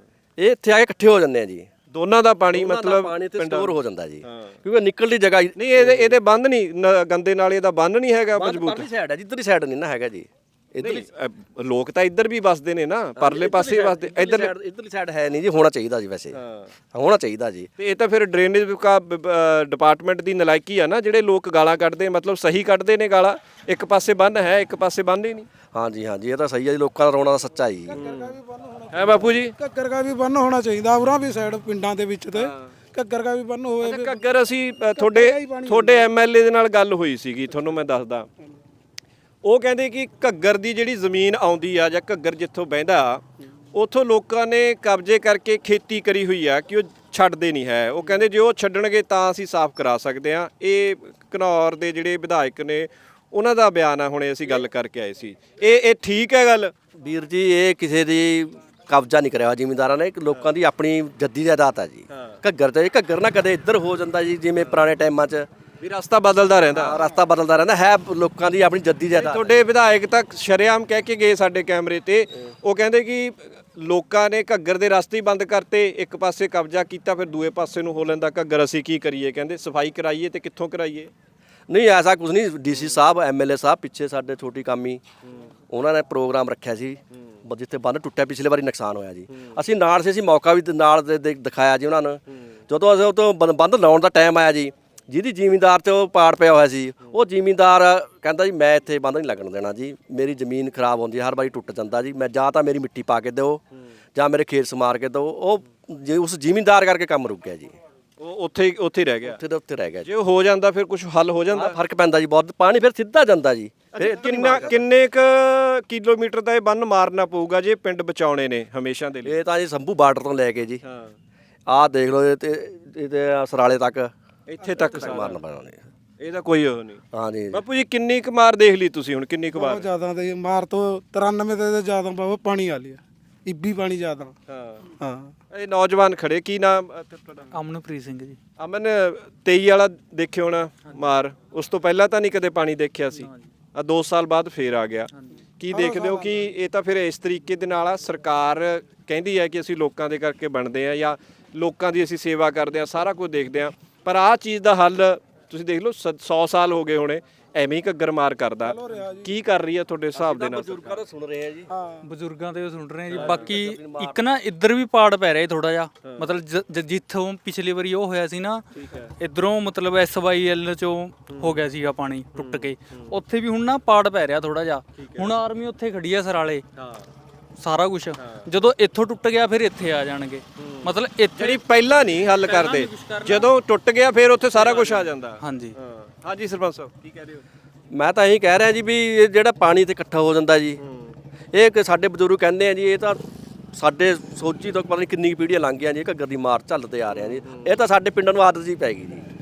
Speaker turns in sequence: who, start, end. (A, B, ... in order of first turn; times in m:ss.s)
0:00.4-0:01.7 A
0:01.9-0:03.7 B
0:02.5-0:06.2 A
0:04.2-0:04.6 B
0:05.6-0:08.9 B
0:08.4-0:11.1 A
0:10.8-0:14.5 B
0:13.2-0:16.4 A
0:16.3-0:16.7 B
0:16.9-0:17.7 A
0:17.8-0:25.5 B
0:25.7-0:28.0 A
0:27.9-0:34.2 C
0:28.0-0:28.4 B
0:28.9-0:29.6 B
0:32.4-0:32.7 B
0:33.8-0:38.3 B
0:35.0-0:36.1 C
0:39.4-0:43.2 B
0:43.7-0:56.7 B
0:57.0-1:05.5 A
1:02.1-1:02.4 B
1:05.8-1:07.1 B
1:06.6-1:09.5 A
1:09.1-1:21.1 B
1:21.7-1:25.0 A
1:22.7-1:23.0 B
1:25.7-1:47.8 A
1:29.3-1:29.6 B
1:48.2-1:49.4 B
1:49.3-1:50.1 A
1:50.0-1:51.8 B
1:51.5-1:54.8 A
1:53.9-1:59.4 B
1:59.2-2:00.8 A
2:00.8-2:01.1 B
2:01.7-2:04.1 A
2:04.5-2:05.4 B
2:04.8-2:05.8 A
2:06.2-2:09.9 B
2:07.1-2:07.6 A
2:09.5-2:14.3 C
2:14.5-2:14.9 B
2:15.0-2:15.3 C
2:15.5-2:17.5 B
2:17.5-2:18.4 D
2:18.6-2:41.0 B
2:23.2-2:23.5 D
2:25.7-2:26.4 C
2:38.6-2:39.3 C
2:40.1-2:41.7 A
2:41.7-2:42.1 C
2:42.0-2:48.6 D
2:43.1-2:43.5 B
2:43.1-2:44.2 A
2:46.0-2:46.3 B
2:48.8-2:49.1 B
2:49.2-2:56.6 D
2:51.3-2:51.6 B
2:52.4-2:53.2 B
2:55.0-2:55.3 B
2:56.8-2:57.1 B
2:57.6-3:01.6 D
2:58.2-2:58.5 B
3:00.6-3:07.4 B
3:02.4-3:03.5 D
3:04.6-3:05.8 D
3:07.9-3:10.8 A
3:10.8-3:11.2 B
3:11.5-3:13.2 A
3:13.7-3:19.3 A
3:17.1-3:17.7 B